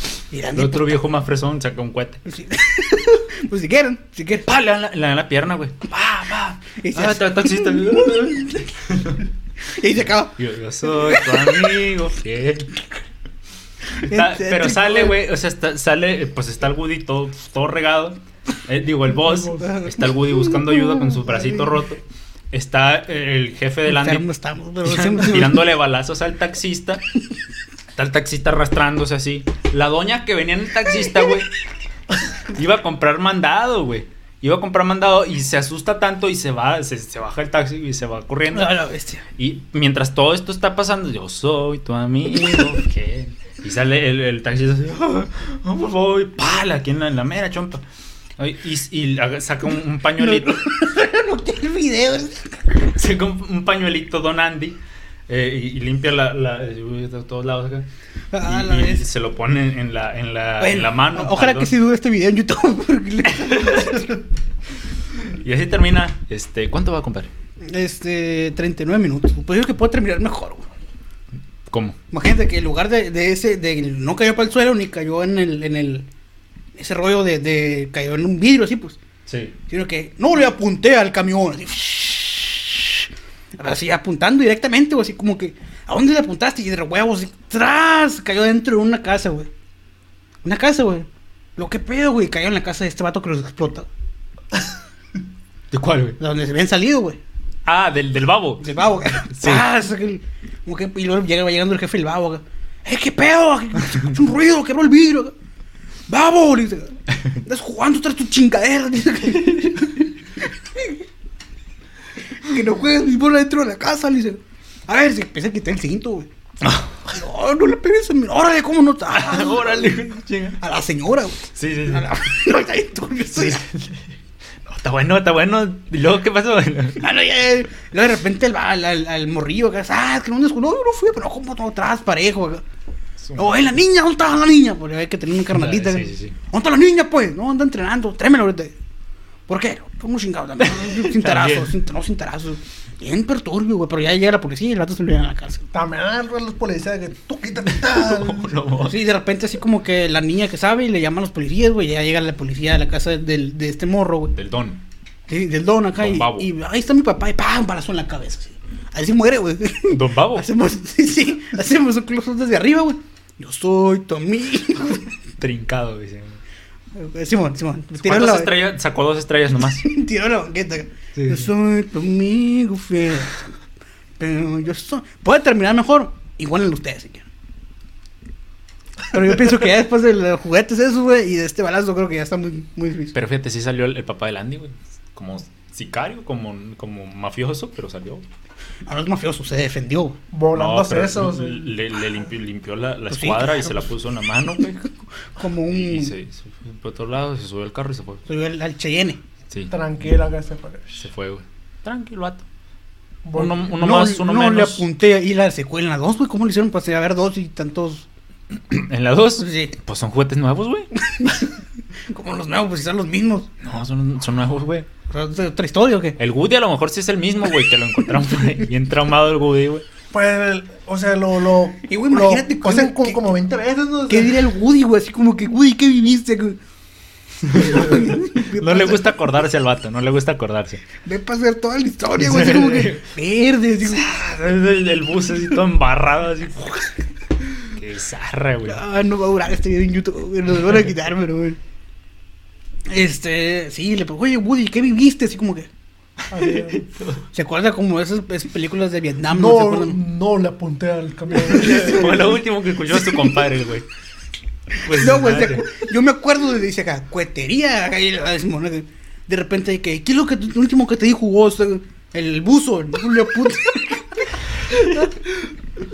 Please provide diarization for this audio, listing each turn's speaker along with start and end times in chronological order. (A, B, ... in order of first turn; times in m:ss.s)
0:00.3-0:01.0 A
0:00.5-0:02.2 B
0:02.3-0:04.5 A
0:04.4-0:09.3 B
0:06.8-0:08.4 A
0:09.8-0:11.9 A
0:10.4-0:12.8 B
0:14.0-0:15.2 A
0:14.0-0:24.3 B
0:19.6-0:21.7 A
0:23.8-0:25.7 A
0:24.8-0:27.0 B
0:28.0-0:31.5 B
0:32.4-0:38.7 B
0:38.5-0:39.2 A
0:39.4-0:47.8 B
0:48.4-0:50.6 B
0:50.2-0:52.6 A
0:52.9-0:57.9 B
0:58.3-0:59.1 A
0:58.4-1:01.8 B
1:00.6-1:04.2 A
1:03.3-1:04.1 B
1:05.3-1:07.3 B
1:07.7-1:10.7 A
1:11.7-1:12.0 B
1:12.1-1:16.1 A
1:16.8-1:19.0 A
1:19.3-1:19.6 B
1:19.7-1:23.0 A
1:23.6-1:29.5 A
1:30.4-1:33.9 A
1:35.7-1:36.2 B
1:36.2-1:37.2 A
1:37.6-1:38.8 B
1:38.6-1:45.3 A
1:39.3-1:39.7 B
1:46.1-1:50.1 A
1:50.8-1:51.0 A
1:52.4-1:56.3 A
1:56.6-1:57.0 B
1:57.1-2:00.0 A
1:59.1-2:00.6 B
2:00.6-2:03.6 A
2:01.5-2:02.1 B
2:03.3-2:04.1 B
2:04.6-2:07.0 B
2:07.0-2:12.6 A
2:13.2-2:13.7 B
2:13.4-2:18.8 A
2:15.5-2:16.4 B
2:19.5-2:25.7 A
2:20.6-2:21.8 B
2:25.7-2:28.6 C
2:27.7-2:29.0 B
2:28.8-2:34.3 A
2:34.3-2:34.8 B
2:35.3-2:45.1 A
2:36.0-2:36.5 B
2:39.9-2:40.5 B
2:45.4-2:46.4 B
2:47.0-2:48.6 A
2:48.0-2:49.9 B
2:49.8-2:53.4 A
2:51.2-2:51.5 B
2:54.2-2:57.3 A
2:59.1-3:03.2 A
3:03.1-3:08.2 B
3:08.9-3:10.2 A
3:10.3-3:11.8 C
3:10.5-3:14.8 B
3:13.1-3:13.8 A
3:14.7-3:16.1 A
3:15.7-3:18.2 B
3:18.3-3:19.2 A
3:19.7-3:21.0 C
3:21.0-3:22.5 B
3:23.2-3:23.7 C
3:23.4-3:24.8 B
3:23.8-3:28.1 A
3:28.6-3:30.9 B
3:29.4-3:29.8 A
3:31.0-3:31.5 A
3:32.1-3:33.5 A
3:33.6-3:34.9 B
3:35.1-3:36.2 A
3:36.2-3:39.8 B
3:40.1-3:44.5 C
3:41.8-3:43.2 A
3:44.1-3:46.6 A
3:47.4-3:49.2 A
3:47.5-3:50.8 B
3:51.0-3:54.1 A
3:52.2-3:53.1 B
3:53.8-3:57.0 B
3:57.7-3:58.8 B
3:58.7-4:01.6 A
4:02.9-4:05.7 A
4:06.3-4:06.8 C
4:06.3-4:07.2 B
4:07.3-4:10.0 A
4:09.3-4:12.2 C
4:11.4-4:13.9 B
4:11.5-4:12.4 A
4:12.9-4:13.4 A
4:14.8-4:15.7 B
4:14.8-4:25.1 A